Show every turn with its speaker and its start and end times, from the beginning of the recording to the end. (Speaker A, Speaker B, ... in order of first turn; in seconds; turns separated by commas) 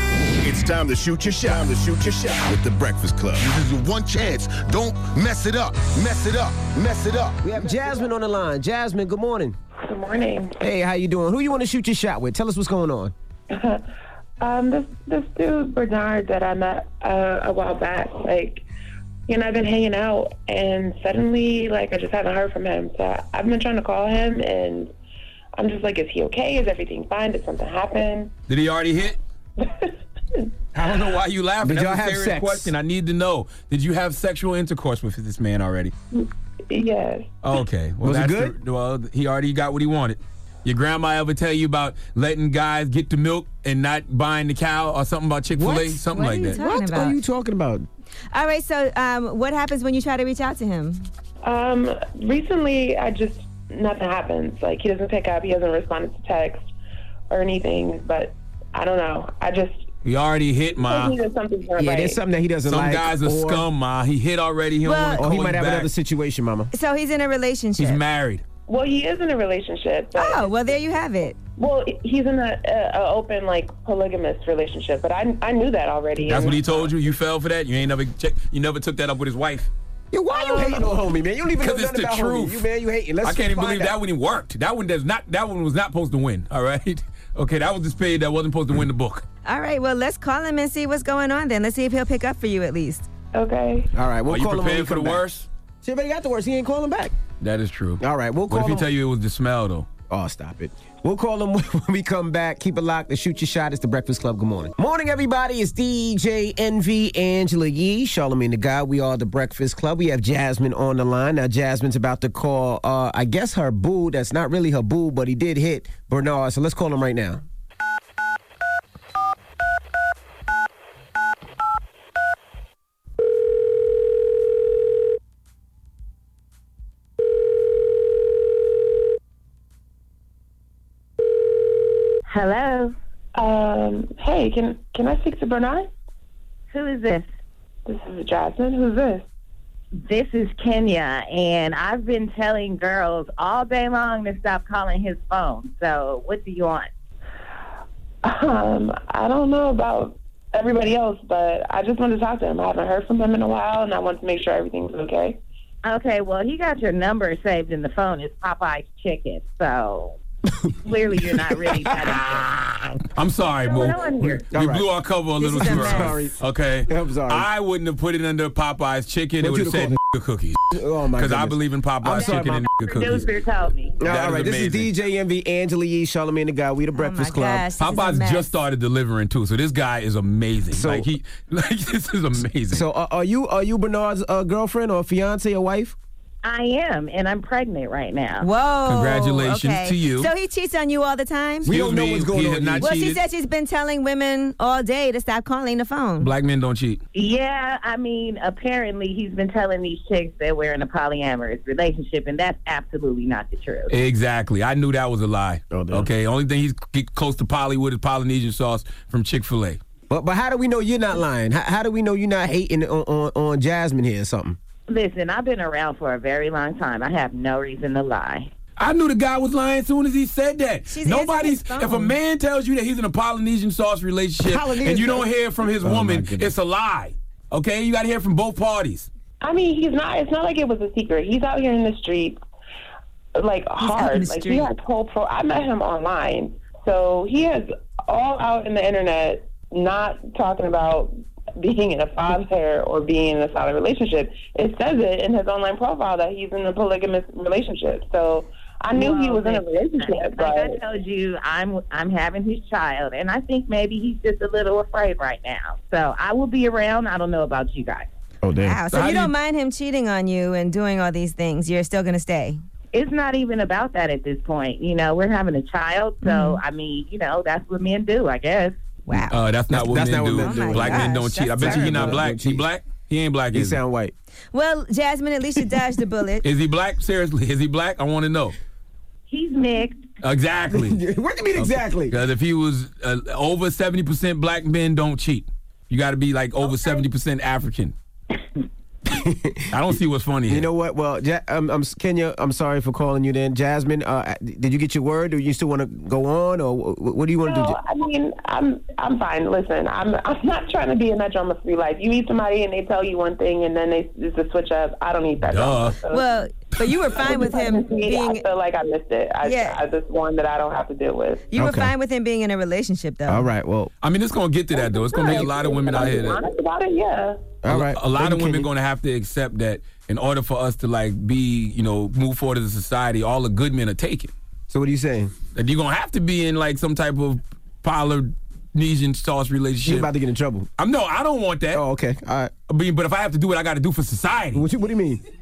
Speaker A: 0.4-7.4, Speaker B: 7.4-9.6, Speaker C: 9.8-10.5, Speaker B: 10.6-13.1, Speaker C: 13.5-13.8, Speaker C: 14.4-18.6, Speaker C: 19.3-24.9, Speaker C: 25.6-28.3, Speaker D: 28.5-29.2, Speaker C: 29.6-29.9, Speaker D: 30.7-35.9, Speaker B: 31.6-32.7, Speaker C: 36.1-37.3, Speaker D: 37.4-46.6, Speaker B: 38.0-38.5, Speaker B: 45.5-47.9, Speaker E: 46.1-47.2, Speaker E: 48.3-51.1, Speaker C: 51.4-56.7, Speaker C: 57.3-59.9, Speaker D: 60.0-61.2, Speaker C: 60.8-62.2, Speaker B: 61.8-63.6, Speaker D: 62.6-65.9, Speaker E: 64.8-65.3, Speaker B: 65.2-66.7, Speaker E: 66.7-68.0, Speaker D: 67.8-68.4, Speaker C: 68.7-70.5, Speaker E: 70.1-71.4, Speaker C: 71.6-76.9, Speaker D: 76.3-79.7, Speaker B: 80.1-83.9, Speaker D: 81.6-82.6, Speaker D: 83.2-89.2, Speaker E: 89.4-93.1, Speaker C: 93.3-93.9, Speaker B: 93.9-95.2, Speaker D: 94.3-95.5, Speaker B: 95.8-97.1, Speaker D: 97.4-99.9, Speaker B: 98.0-98.9, Speaker B: 100.1-117.4, Speaker F: 132.3-132.9, Speaker C: 133.3-135.9, Speaker F: 136.7-137.3, Speaker C: 137.8-139.2, Speaker F: 140.0-146.9, Speaker C: 148.2-155.4, Speaker F: 155.8-160.2, Speaker F: 160.8-162.4, Speaker B: 161.2-162.1, Speaker D: 163.1-173.3, Speaker C: 163.7-164.4, Speaker B: 164.5-164.9, Speaker E: 165.4-166.2, Speaker B: 165.5-166.4, Speaker B: 166.9-167.5, Speaker B: 169.4-170.0, Speaker B: 170.7-172.7, Speaker F: 172.8-174.0, Speaker B: 174.0-177.7, Speaker D: 174.0-174.9, Speaker E: 176.9-178.4, Speaker D: 177.8-182.8, Speaker B: 180.7-181.1, Speaker B: 182.7-185.9, Speaker F: 186.4-188.5, Speaker E: 188.4-191.7, Speaker D: 188.8-190.3, Speaker B: 191.6-192.9, Speaker D: 191.6-193.2, Speaker E: 192.8-196.3, Speaker D: 196.2-197.0, Speaker F: 197.1-203.9, Speaker D: 203.9-209.8, Speaker B: 205.7-206.1, Speaker B: 210.1-214.6, Speaker F: 214.9-218.5, Speaker D: 218.8-229.1, Speaker E: 220.9-222.1, Speaker B: 224.4-225.3, Speaker B: 225.8-226.5, Speaker C: 229.4-232.4, Speaker C: 233.3-250.8, Speaker E: 233.8-234.7, Speaker F: 248.9-258.1, Speaker B: 258.4-258.8, Speaker E: 258.6-262.6, Speaker D: 258.9-259.3, Speaker F: 262.9-268.8, Speaker E: 266.2-266.6, Speaker E: 269.1-269.4, Speaker D: 269.3-273.8, Speaker B: 269.7-272.6, Speaker E: 270.4-272.2, Speaker B: 273.5-274.1, Speaker E: 274.5-276.4, Speaker D: 276.4-278.6, Speaker F: 279.3-280.0, Speaker D: 280.2-281.0, Speaker B: 280.7-282.2, Speaker D: 281.5-287.9, Speaker B: 289.1-289.7, Speaker D: 289.7-290.7, Speaker B: 290.5-297.8, Speaker C: 297.4-311.4, Speaker D: 305.5-305.9, Speaker E: 306.1-308.4, Speaker E: 309.4-309.8, Speaker E: 311.5-313.5, Speaker B: 311.6-311.9, Speaker B: 313.3-313.9, Speaker D: 314.0-316.4, Speaker C: 314.7-317.5, Speaker B: 317.6-318.7, Speaker D: 317.7-324.3, Speaker B: 324.7-325.3, Speaker D: 325.5-330.1, Speaker B: 329.8-330.7, Speaker D: 330.8-331.8, Speaker B: 331.7-332.5, Speaker D: 332.7-334.6, Speaker B: 334.5-335.2